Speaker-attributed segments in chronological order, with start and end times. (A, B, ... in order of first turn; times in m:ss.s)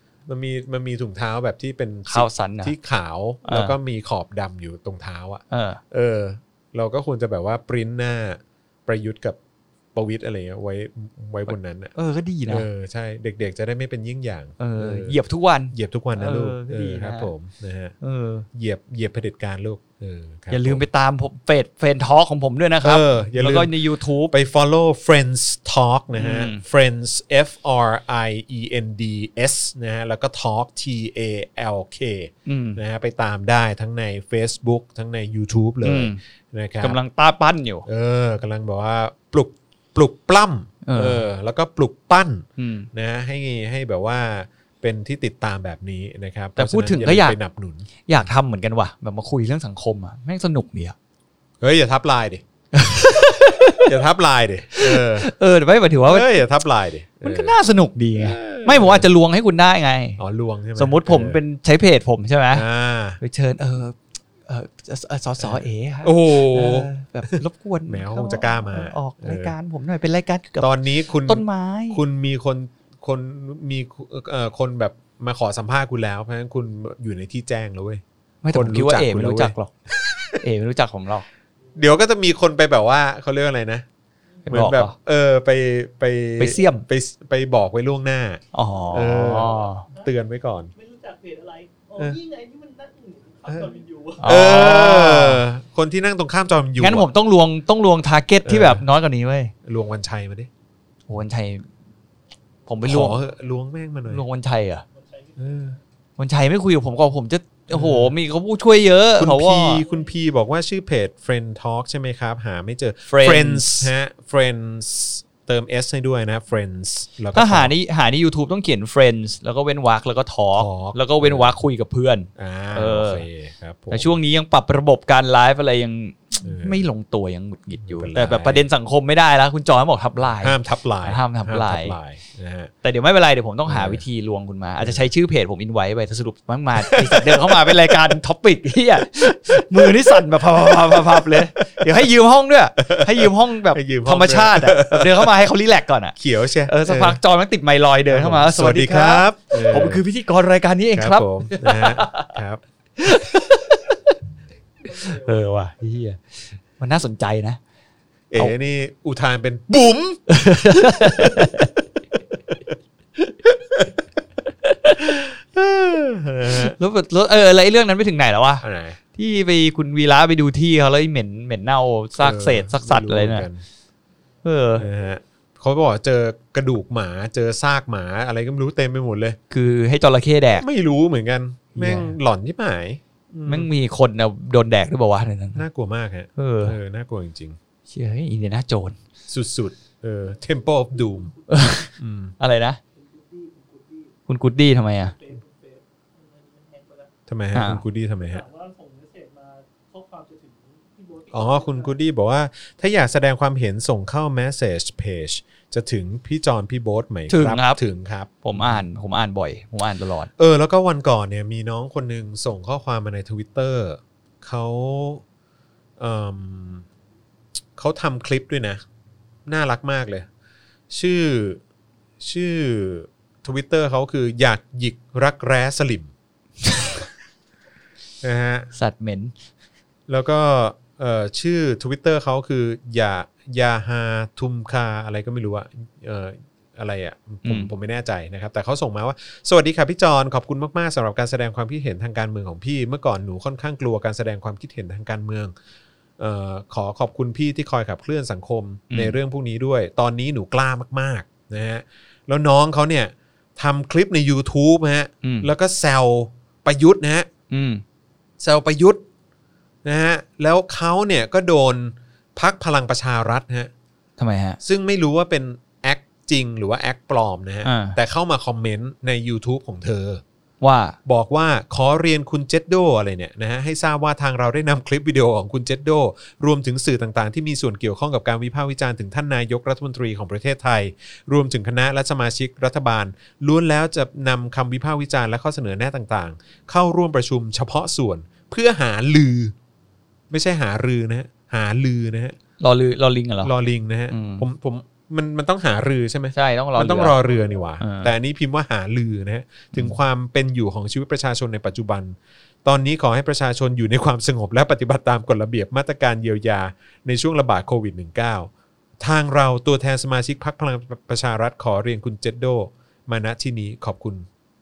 0:00.3-0:09.4 A
0:02.1-0:02.7 B
0:03.4-0:03.8 B
0:05.5-0:05.8 B
0:10.0-0:11.9 A
0:11.5-0:12.7 B
0:12.5-0:15.2 A
0:14.6-0:17.3 B
0:15.7-0:18.0 A
0:18.0-0:18.5 B
0:18.5-0:20.8 A
0:20.5-0:24.3 B
0:22.8-0:23.7 A
0:24.3-0:37.0 A
0:26.2-0:26.6 B
0:32.5-0:32.8 B
0:35.8-0:36.2 B
0:36.8-0:37.9 B
0:37.9-0:48.2 A
0:40.8-0:41.2 B
0:42.6-0:42.9 B
0:46.6-0:47.4 B
0:48.1-0:51.0 B
0:51.6-0:52.4 A
0:52.7-0:53.9 B
0:53.7-0:55.3 A
0:54.8-0:56.4 B
0:56.1-0:57.6 A
0:57.2-1:00.2 B
0:58.2-0:59.1 A
1:00.2-1:01.4 A
1:00.8-1:02.7 B
1:02.5-1:03.2 A
1:03.2-1:12.0 B
1:05.4-1:07.3 A
1:07.9-1:09.5 A
1:10.6-1:18.0 A
1:18.4-1:19.7 B
1:18.5-1:20.4 A
1:20.4-1:21.3 B
1:21.8-1:23.9 A
1:24.4-1:30.7 A
1:24.5-1:24.9 B
1:26.4-1:26.8 B
1:28.5-1:29.9 B
1:30.8-1:34.1 C
1:33.5-1:37.1 A
1:34.2-1:35.4 B
1:36.8-1:39.5 B
1:38.4-1:38.8 A
1:39.6-1:40.5 A
1:41.1-1:41.7 B
1:42.7-1:43.2 B
1:42.8-1:44.2 A
1:44.1-1:44.8 B
1:45.4-1:45.8 A
1:46.2-1:49.8 B
1:47.7-1:48.1 A
1:49.2-1:57.7 A
1:53.1-1:53.9 B
1:57.3-2:03.3 B
2:00.6-2:01.6 A
2:02.4-2:04.1 A
2:03.9-2:12.0 B
2:06.4-2:06.8 A
2:07.8-2:08.6 A
2:10.4-2:12.7 A
2:12.8-2:26.2 B
2:13.7-2:14.0 A
2:16.8-2:17.9 A
2:19.2-2:21.9 A
2:22.8-2:25.4 A
2:26.2-2:27.2 A
2:26.7-2:32.3 B
2:28.1-2:30.0 A
2:31.0-2:32.6 A
2:33.0-2:34.1 B
2:34.8-2:37.6 B
2:38.3-2:41.6 A
2:40.3-2:41.7 B
2:42.5-2:44.0 A
2:44.6-2:45.1 B
2:45.0-2:46.8 A
2:46.5-2:53.5 B
2:48.6-2:49.0 A
2:52.2-2:53.6 A
2:54.4-2:54.8 B
2:54.8-2:59.4 A
2:59.5-3:00.7 B
3:00.6-3:03.7 A
3:01.8-3:02.1 B
3:03.5-3:05.6 B
3:05.6-3:07.6 A
3:06.4-3:06.8 B
3:07.9-3:09.0 B
3:09.3-3:12.4 A
3:11.5-3:12.8 B
3:13.1-3:13.9 C
3:14.3-3:15.2 B
3:15.2-3:15.8 C
3:16.4-3:17.1 C
3:17.3-3:18.4 A
3:17.5-3:17.8 B
3:19.9-3:21.4 C
3:21.3-3:28.8 A
3:27.3-3:27.8 B
3:28.4-3:30.3 B
3:30.4-3:35.2 A
3:36.0-3:36.8 A
3:37.8-3:38.8 A
3:39.5-3:40.3 A
3:40.9-3:41.6 A
3:42.2-3:46.1 A
3:48.2-3:48.7 A
3:48.7-3:49.3 B
3:50.1-4:05.5 A
3:57.4-3:57.7 B
4:06.2-4:17.3 A
4:08.9-4:09.2 B
4:15.2-4:15.5 B
4:17.5-4:17.8 B
4:18.4-4:19.0 A
4:19.8-4:23.7 A
4:24.2-4:24.6 B
4:24.6-4:30.2 A
4:27.6-4:28.0 B
4:30.6-4:31.0 B
4:31.1-4:49.6 A
4:50.3-4:52.4 A
4:52.6-4:53.5 B
4:53.4-5:14.3 A
4:54.1-4:54.4 B
4:56.4-4:57.2 B
4:57.8-4:58.1 B